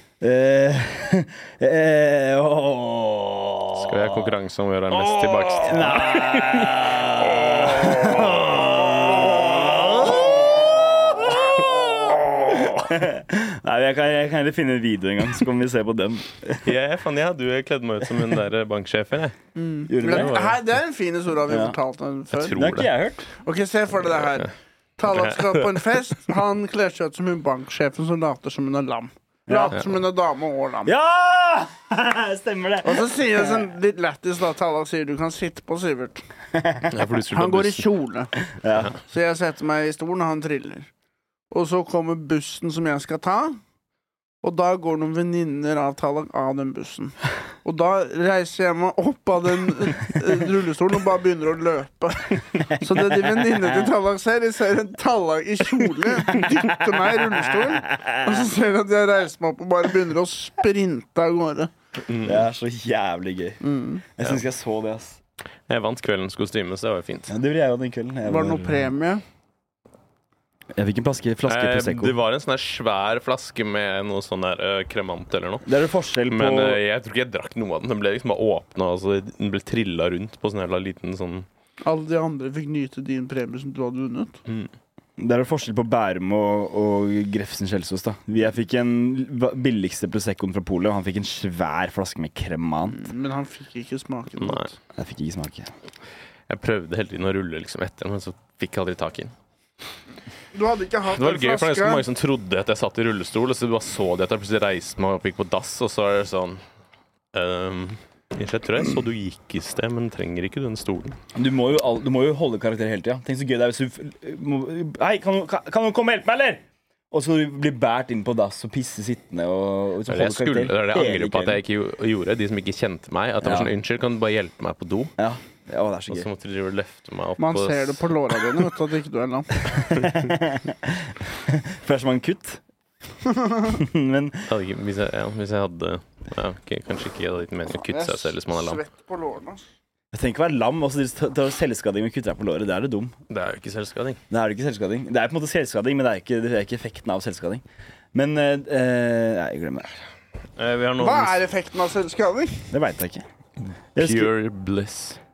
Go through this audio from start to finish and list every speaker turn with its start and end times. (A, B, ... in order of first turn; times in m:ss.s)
0:00.2-0:04.3 A
0:03.7-0:08.6 B
0:04.9-0:16.6 A
0:16.6-0:19.4 B
0:19.6-0:22.6 C
0:19.9-0:20.3 A
0:20.0-0:20.6 B
0:21.5-0:21.8 A
0:22.3-0:22.9 B
0:22.5-0:23.3 A
0:23.4-0:30.9 C
0:25.1-0:25.8 B
0:29.5-0:29.8 A
0:30.8-0:33.7 A
0:32.8-0:36.2 C
0:36.5-0:36.9 A
0:36.9-0:37.9 B
0:37.3-0:38.3 C
0:38.5-0:38.9 A
0:39.0-0:40.9 C
0:41.5-0:43.6 C
0:44.4-1:01.7 C
0:52.6-0:53.9 A
0:56.2-0:58.5 A
1:02.0-1:02.4 B
1:02.2-1:03.6 A
1:03.6-1:04.0 C
1:04.2-1:05.2 A
1:05.7-1:07.3 B
1:07.3-1:08.9 A
1:08.2-1:09.2 C
1:10.7-1:12.1 A
1:11.4-1:15.7 B
1:15.6-1:16.8 A
1:16.3-1:21.5 B
1:21.8-1:24.4 C
1:25.2-1:33.1 A
1:32.9-1:34.7 C
1:34.4-1:34.7 B
1:34.9-1:35.7 A
1:36.5-1:39.3 B
1:40.5-1:42.0 C
1:41.1-1:46.6 B
1:47.3-1:51.2 B
1:51.3-2:01.6 A
2:00.1-2:05.1 B
2:03.4-2:03.7 A
2:05.2-2:06.3 A
2:06.1-2:08.1 B
2:07.4-2:09.6 C
2:09.8-2:10.3 B
2:09.8-2:12.6 A
2:13.2-2:13.8 C
2:13.7-2:14.5 A
2:14.5-2:18.8 B
2:17.8-2:19.6 C
2:20.1-2:23.1 A
2:23.3-2:24.2 B
2:24.3-2:27.6 A
2:28.1-2:29.9 A
2:30.6-2:31.4 B
2:31.0-2:32.7 C
2:32.7-2:33.2 A
2:33.9-2:34.3 A
2:34.0-2:35.2 B